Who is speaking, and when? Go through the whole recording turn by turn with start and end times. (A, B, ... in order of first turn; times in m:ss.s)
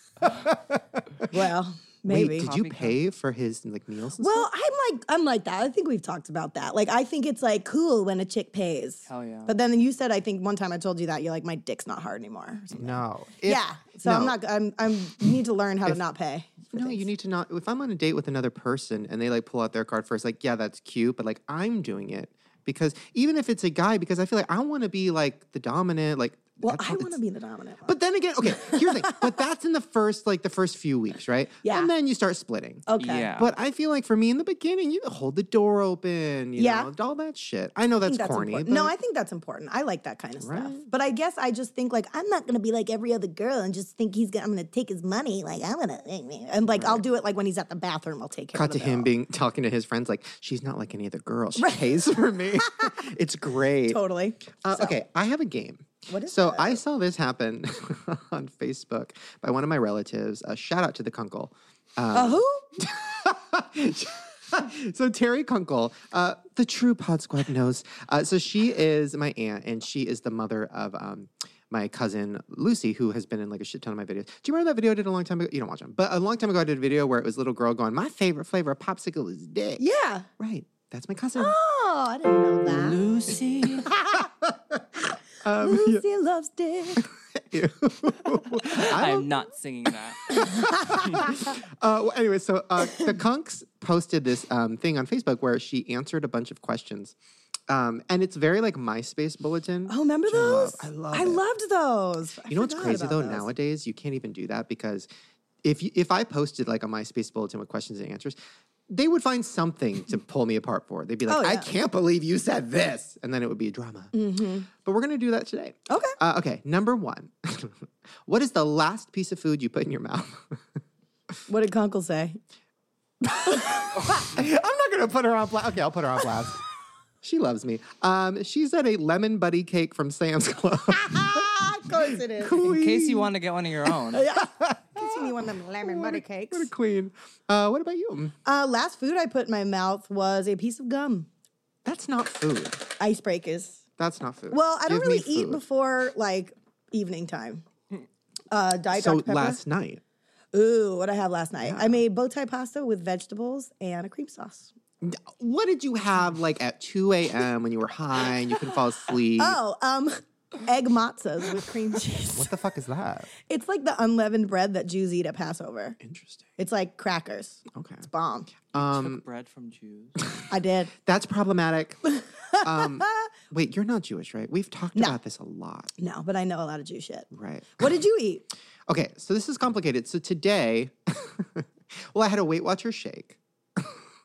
0:00.4-0:01.3 A
0:01.3-0:02.5 B
0:02.1-0:04.5 A
0:02.4-0:03.0 C
0:04.2-0:17.1 B
0:09.1-0:09.5 C
0:12.7-0:14.4 A
0:16.7-0:27.2 A
0:26.6-0:27.9 B
0:27.8-0:32.9 A
0:28.5-0:29.3 B
0:31.6-0:31.9 B
0:32.9-0:33.3 B
0:33.0-0:33.5 C
0:33.4-0:38.9 A
0:36.6-0:36.9 B
0:38.1-0:49.1 B
0:40.4-0:40.8 A
0:46.7-0:47.0 A
0:48.5-1:19.8 A
0:51.6-0:52.0 B
0:53.9-0:54.9 B
0:56.1-0:56.8 B
1:02.1-1:02.7 B
1:19.8-1:20.3 B
1:20.4-1:21.6 A
1:21.4-1:23.1 B
1:22.7-1:23.9 C
1:24.4-1:24.8 A
1:25.4-1:26.0 A
1:25.6-1:27.0 B
1:27.0-1:29.3 A
1:28.7-1:30.4 C
1:30.3-1:37.2 A
1:30.4-1:31.2 B
1:37.7-1:41.4 A
1:39.9-1:43.5 B
1:42.5-1:45.1 A
1:45.6-1:48.4 A
1:48.9-1:54.2 A
1:51.3-1:51.7 B
1:54.1-1:54.7 B
1:54.7-2:00.8 A
1:55.9-1:56.2 B
2:01.5-2:02.4 B
2:03.2-2:06.6 A
2:07.2-2:13.3 A
2:11.1-2:12.6 B
2:12.6-2:14.3 C
2:14.1-2:16.7 B
2:14.4-2:18.4 A
2:18.4-2:21.3 B
2:21.8-2:22.9 A
2:23.0-2:23.8 B
2:24.0-2:25.6 A
2:24.5-2:27.6 B
2:28.5-2:29.6 B
2:28.9-2:30.0 A
2:30.5-2:34.7 B
2:31.6-2:32.0 A
2:35.0-2:39.6 A
2:39.4-2:42.5 B
2:42.3-2:43.3 A
2:43.4-2:46.0 B
2:46.0-2:46.5 A
2:46.6-2:48.5 B
2:47.7-2:49.2 A
2:48.8-2:50.2 C
2:50.5-2:50.9 B
2:51.0-2:55.9 A
2:52.2-2:53.3 B
2:56.0-2:58.4 B
2:57.3-2:57.8 A
2:58.9-3:04.0 A